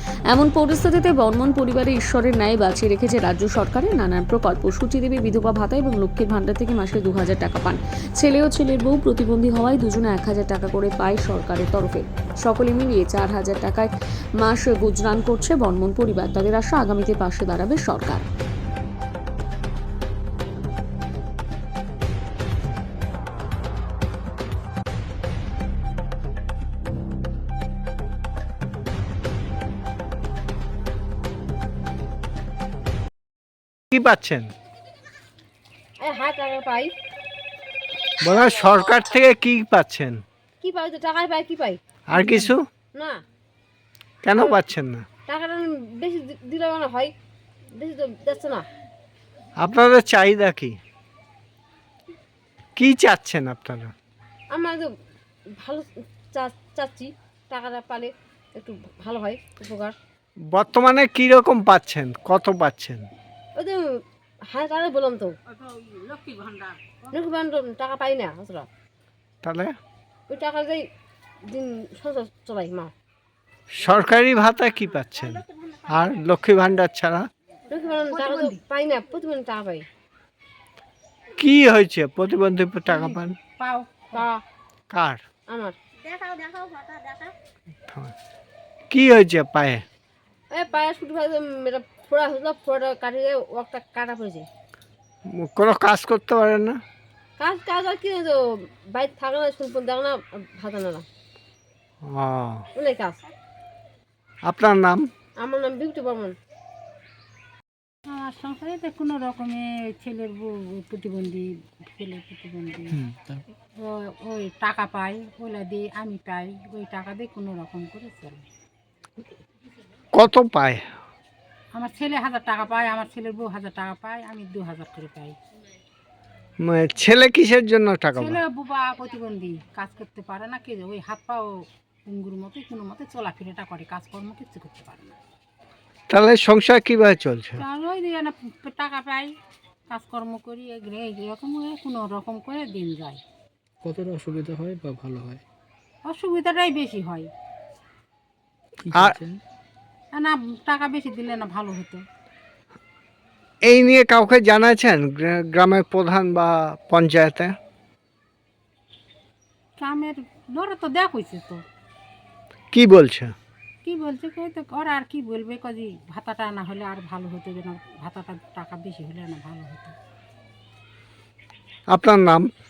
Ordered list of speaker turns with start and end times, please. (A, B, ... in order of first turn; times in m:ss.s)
0:00.3-0:18.2 A
0:33.9-0:34.5 B
0:36.0-0:36.9 C
0:38.2-0:40.2 B
0:40.6-0:41.8 C
0:42.1-0:42.6 B
0:42.9-0:43.2 C
0:44.2-0:45.0 B
0:45.3-0:47.1 C
0:47.8-0:48.7 C
0:49.6-0:50.8 B
0:52.8-0:53.9 B
0:54.5-0:54.9 C
0:55.6-1:00.0 C
1:00.5-1:03.1 B
1:03.6-1:03.9 C
1:04.5-1:05.4 C
1:05.5-1:07.0 D
1:07.1-1:08.7 C
1:09.4-1:09.8 B
1:10.3-1:10.8 C
1:11.5-1:12.9 C
1:13.7-1:17.3 B
1:17.7-1:19.9 C
1:18.1-1:18.6 D
1:21.4-1:23.4 B
1:22.9-1:24.3 D
1:24.1-1:24.4 C
1:24.9-1:25.2 B
1:25.5-1:25.8 C
1:28.9-1:29.8 B
1:30.5-1:34.5 C
1:35.3-1:36.8 B
1:37.4-1:41.0 C
1:42.0-1:42.7 B
1:42.7-1:43.2 C
1:44.4-1:45.1 B
1:45.4-1:46.4 C
1:48.1-1:53.0 D
1:53.8-1:58.4 D
2:00.1-2:00.9 B
2:01.7-2:05.4 D
2:06.6-2:08.4 B
2:08.1-2:11.5 D
2:12.1-2:15.2 D
2:16.1-2:17.6 B
2:17.6-2:19.3 D
2:19.9-2:23.2 D
2:23.8-2:25.4 E
2:26.1-2:27.3 D
2:28.8-2:29.4 E
2:30.1-2:32.0 D
2:33.6-2:37.6 B
2:39.8-2:41.6 D
2:42.7-2:43.4 B
2:43.8-2:50.0 D
2:51.9-2:52.5 B